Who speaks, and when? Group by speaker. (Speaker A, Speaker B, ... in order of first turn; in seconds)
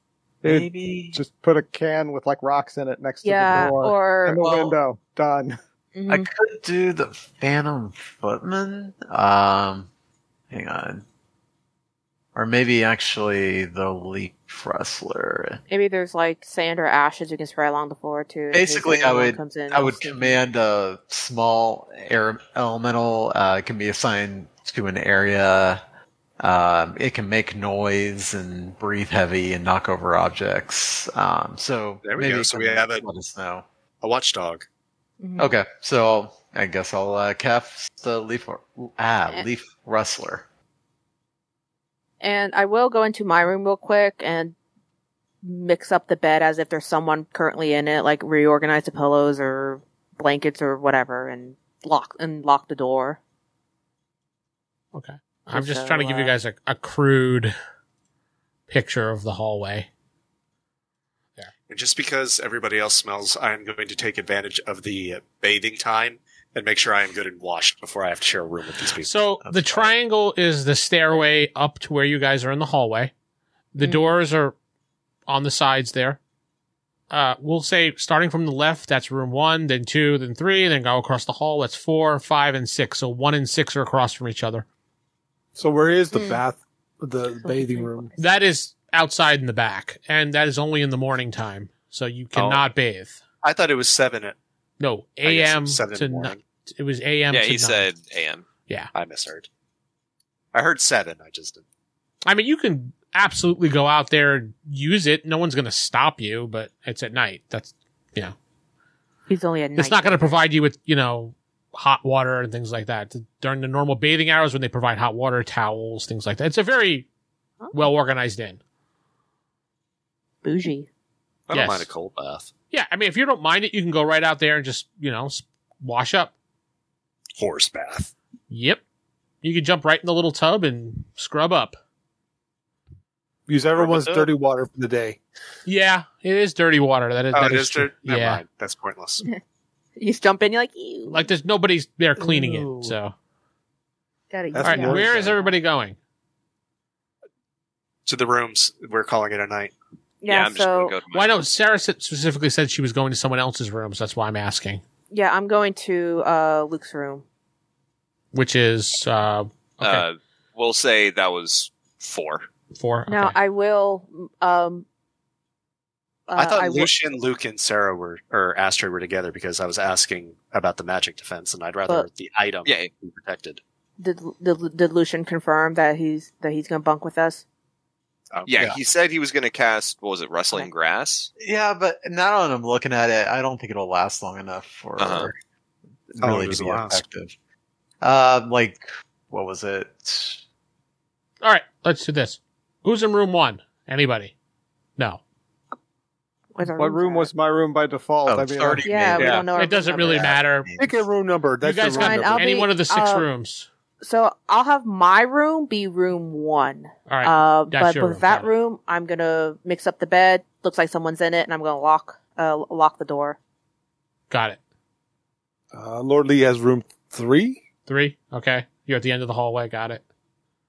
Speaker A: 0.4-1.2, 4.4-4.8, 6.1-9.9, 10.5-11.0, 12.3-15.6, 18.5-25.8, 26.4-33.7, 35.4-40.5, 69.4-69.9, 181.4-185.4, 186.1-187.3, 188.0-190.4, 198.3-199.5, 200.0-201.0
Speaker B: 0.4-5.6, 196.8-199.3
Speaker C: 3.2-4.4, 6.0-6.3, 15.7-20.4, 35.2-35.5, 42.2-44.5, 45.4-53.2, 55.5-56.4, 73.8-74.1, 86.1-86.4, 87.4-88.2, 109.3-110.4, 120.4-120.9, 140.0-141.3, 144.3-145.5, 150.2-151.0, 155.1-157.2, 163.1-164.8, 166.3-166.9, 174.0-177.4, 196.6-197.3, 198.8-200.3, 201.9-203.3, 204.0-213.4
Speaker D: 32.0-33.1, 34.0-34.7, 61.7-69.1, 92.3-92.6, 93.4-94.4, 95.2-96.4, 98.9-99.5, 100.5-101.6, 121.5-122.5, 127.4-128.1, 133.8-134.3, 137.3-139.2, 148.1-149.7, 166.3-173.6, 178.3-178.7, 186.2-187.0
Speaker E: 54.9-57.5, 58.7-59.9, 69.0-73.1, 73.7-74.6, 75.3-76.2, 77.1-84.7, 88.2-93.2, 94.8-97.9, 102.3-108.3, 109.8-117.1, 117.7-118.6, 121.5-121.9, 122.7-126.3, 128.5-128.8, 129.4-131.8, 135.7-138.4, 141.1-143.1, 144.6-146.0, 151.1-154.8, 158.3-160.1, 162.7-163.4, 191.4-194.3, 199.5-200.7, 201.6-203.7, 207.1-208.5, 214.3-214.6, 217.9-220.0
Speaker F: 85.6-88.1, 133.5-135.2, 144.6-145.4, 199.2-199.5, 200.8-202.4, 215.7-217.6
Speaker G: 97.3-98.5, 150.3-151.3, 159.8-162.5, 178.5-181.3, 185.0-185.3